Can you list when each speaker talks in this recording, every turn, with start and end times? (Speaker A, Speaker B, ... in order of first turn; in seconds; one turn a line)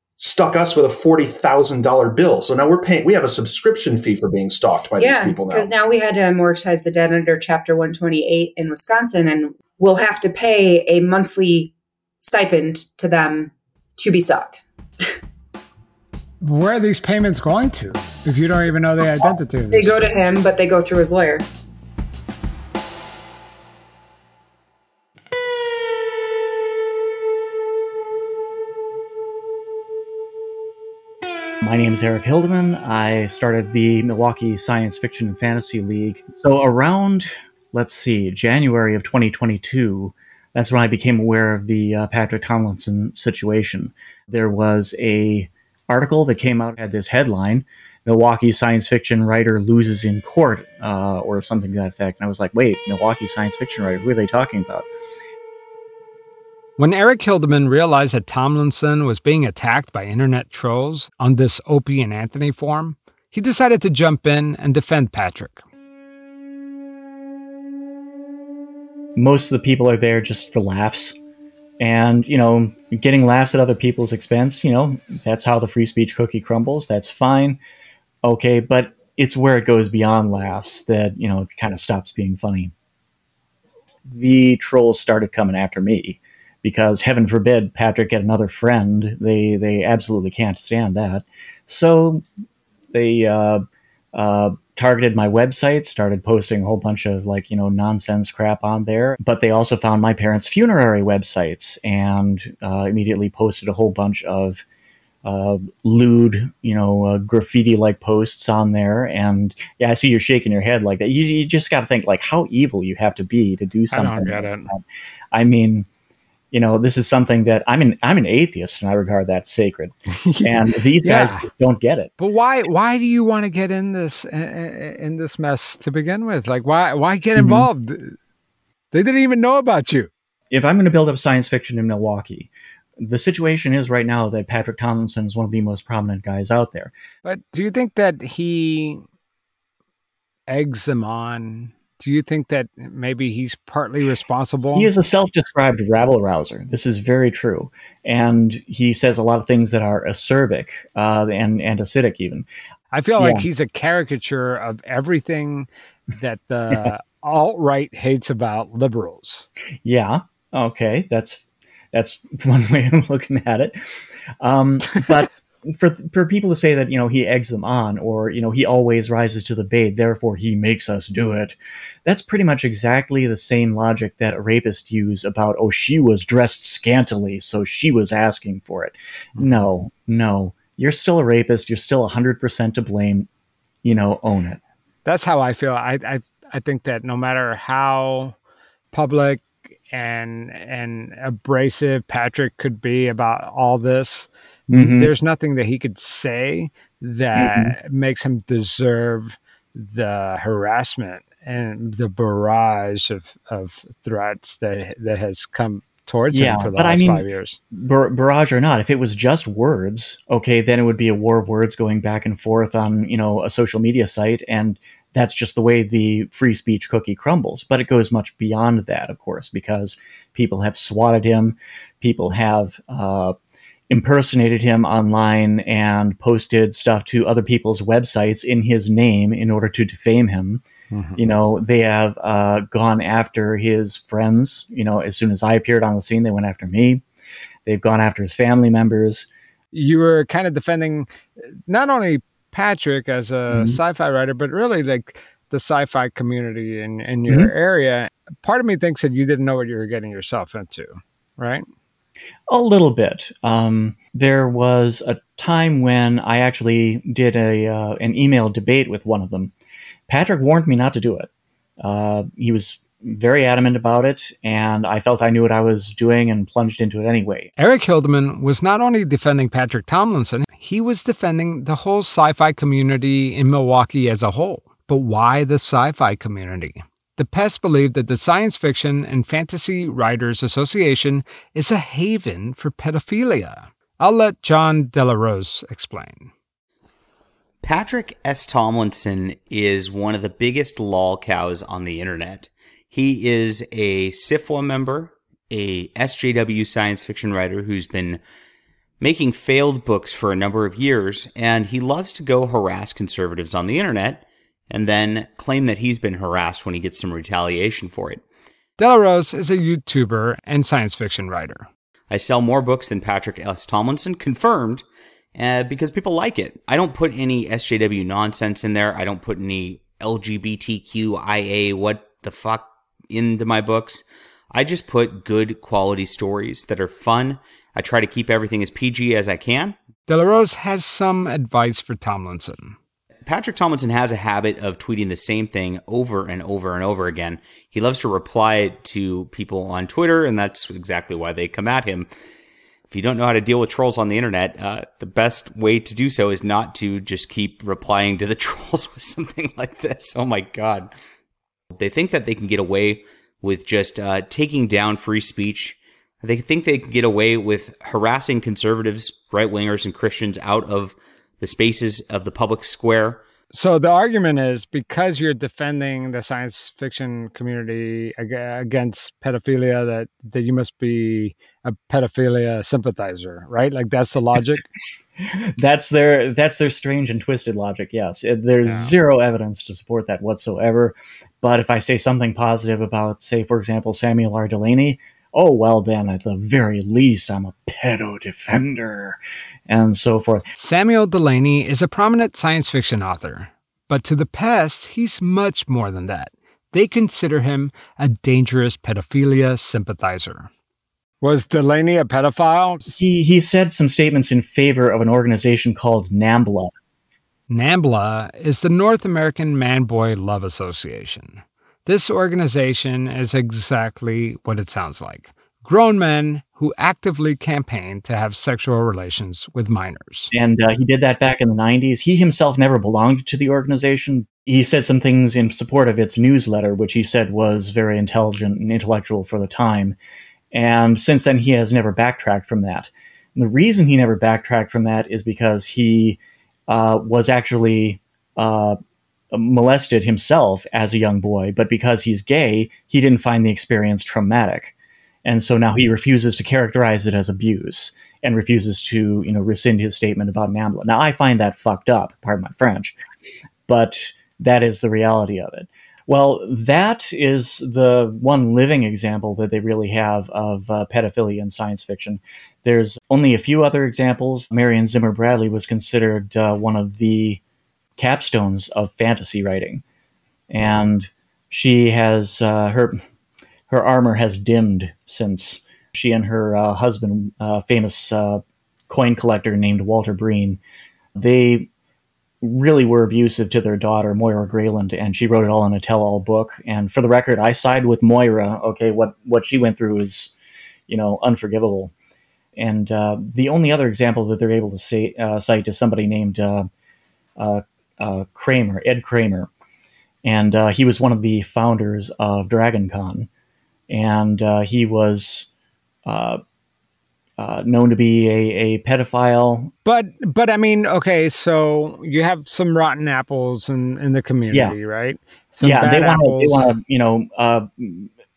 Speaker A: 0.2-5.7
Speaker B: 5.0-14.6
Speaker C: 16.4-20.1
Speaker B: 19.7-21.4
Speaker D: 31.6-54.9
Speaker C: 56.8-65.6
Speaker D: 69.2-71.2
Speaker D: 71.8-77.6
Speaker D: 78.2-82.7
Speaker D: 84.1-92.2
Speaker D: 92.9-104.6
Speaker D: 105.2-114.8
Speaker C: 113.9-114.7
Speaker D: 115.3-115.9
Speaker D: 116.5-122.1
Speaker C: 120.1-121.5
Speaker C: 122.2-128.2
Speaker D: 127.3-127.7
Speaker C: 128.9-130.1
Speaker D: 130.5-136.9
Speaker C: 137.2-139.0
Speaker C: 140.5-144.9
Speaker D: 144.7-152.5
Speaker C: 152.9-159.5
Speaker D: 153.2-153.4
Speaker D: 159.8-183.3
Speaker C: 179.4-179.7
Speaker D: 183.8-184.6
Speaker C: 185.0-188.3
Speaker C: 188.9-207.6
Speaker D: 194.7-195.1
Speaker D: 197.3-197.7
Speaker D: 206.3-223.3
Speaker D: 223.9-230.6
Speaker C: 230.9-231.2
Speaker D: 231.2-237.0
Speaker D: 237.7-239.3
Speaker C: 239.7-241.1
Speaker C: 241.7-251.7
Speaker D: 243.5-243.8
Speaker D: 252.5-259.5
Speaker D: 260.1-261.3
Speaker D: 261.8-267.5
Speaker C: 267.6-286.3
Speaker E: 287.6-298.2
Speaker E: 299.0-308.2
Speaker C: 308.8-311.7
Speaker E: 312.1-314.8
Speaker E: 315.3-329.8
Speaker C: 330.1-332.8
Speaker E: 333.2-342.1
Speaker E: 342.9-350.9
Speaker E: 351.7-363.2
Speaker C: 363.5-374.7
Speaker D: 375.6-390.4
Speaker C: 378.6-378.9
Speaker C: 390.6-400.5
Speaker C: 401.2-403.0
Speaker D: 402.9-406.7
Speaker C: 407.5-420.3
Speaker D: 420.3-430.0
Speaker D: 430.5-438.8
Speaker D: 439.3-444.7
Speaker D: 445.2-453.0
Speaker D: 453.7-467.4
Speaker D: 468.0-469.8
Speaker D: 470.5-473.0
Speaker D: 473.7-480.6
Speaker D: 481.1-481.7
Speaker D: 482.4-490.3
Speaker D: 490.9-491.9
Speaker D: 492.6-496.7
Speaker D: 497.4-499.5
Speaker D: 500.2-503.3
Speaker D: 503.9-505.5
Speaker D: 506.0-506.4
Speaker D: 507.4-509.7
Speaker C: 509.8-516.7
Speaker D: 515.6-518.1